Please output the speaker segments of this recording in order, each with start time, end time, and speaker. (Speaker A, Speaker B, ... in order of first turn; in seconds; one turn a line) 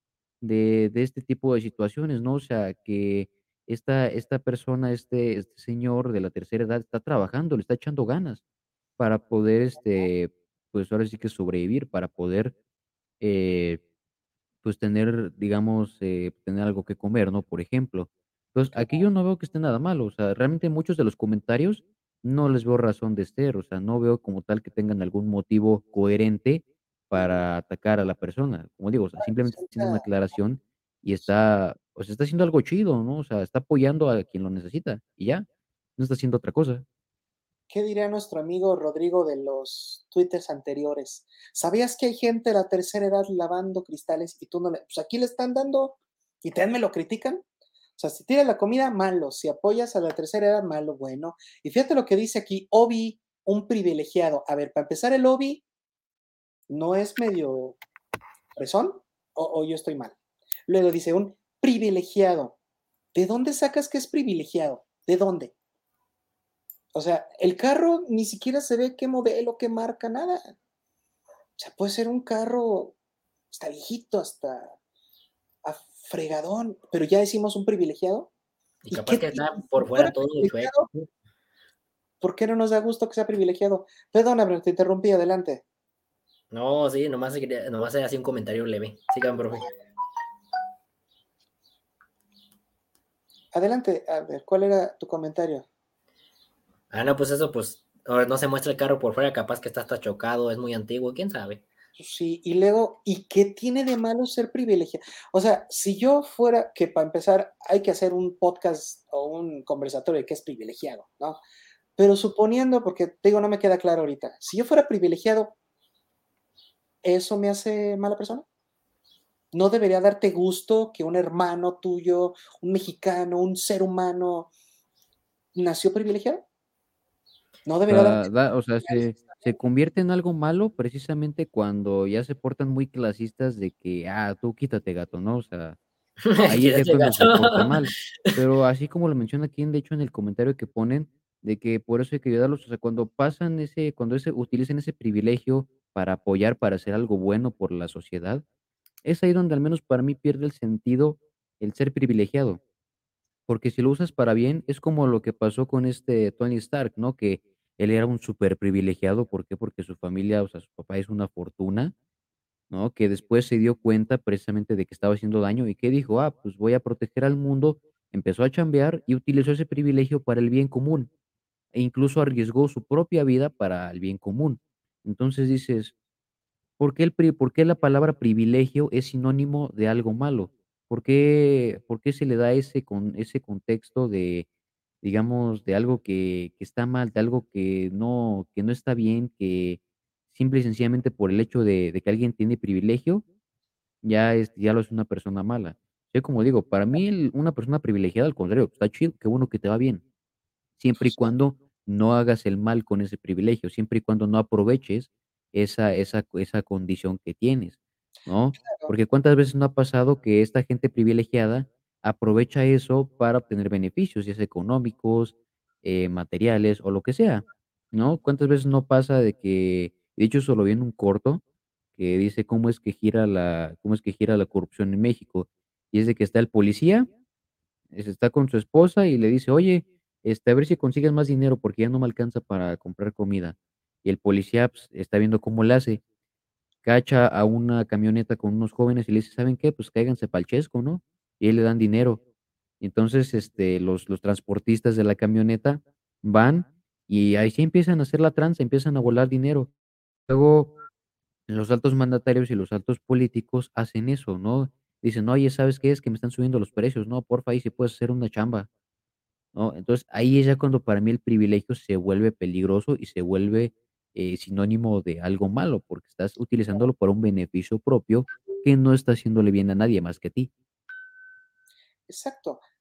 Speaker A: 0.4-8.4
Speaker A: 9.0-12.6
Speaker A: 13.2-13.8
Speaker A: 14.6-36.9
Speaker B: 18.7-19.1
Speaker B: 29.2-30.1
Speaker B: 37.7-47.4
Speaker B: 48.0-55.6
Speaker B: 56.7-57.8
Speaker B: 58.6-60.2
Speaker B: 60.7-62.6
Speaker B: 63.1-65.5
Speaker B: 66.9-70.5
Speaker B: 71.6-73.0
Speaker B: 73.5-74.8
Speaker B: 75.6-78.3
Speaker C: 78.8-81.1
Speaker B: 78.9-80.9
Speaker B: 82.2-85.6
Speaker C: 86.5-89.7
Speaker B: 93.5-95.7
Speaker C: 96.9-101.6
Speaker B: 102.0-111.4
Speaker B: 112.0-115.5
Speaker B: 117.0-118.5
Speaker B: 119.5-124.5
Speaker B: 125.5-126.4
Speaker B: 127.7-128.3
Speaker A: 127.9-135.8
Speaker B: 128.8-129.6
Speaker C: 136.2-138.3
Speaker A: 136.4-148.4
Speaker A: 149.0-152.6
Speaker A: 153.5-161.9
Speaker A: 162.7-171.1
Speaker A: 171.7-175.9
Speaker A: 176.8-184.5
Speaker A: 185.0-189.8
Speaker A: 190.3-193.2
Speaker A: 194.0-200.0
Speaker A: 200.8-221.4
Speaker B: 201.0-201.3
Speaker B: 208.6-208.9
Speaker A: 222.0-227.1
Speaker A: 227.9-236.0
Speaker A: 236.8-242.2
Speaker A: 242.8-249.7
Speaker A: 250.3-250.7
Speaker A: 251.5-258.7
Speaker A: 259.5-270.5
Speaker B: 272.1-272.6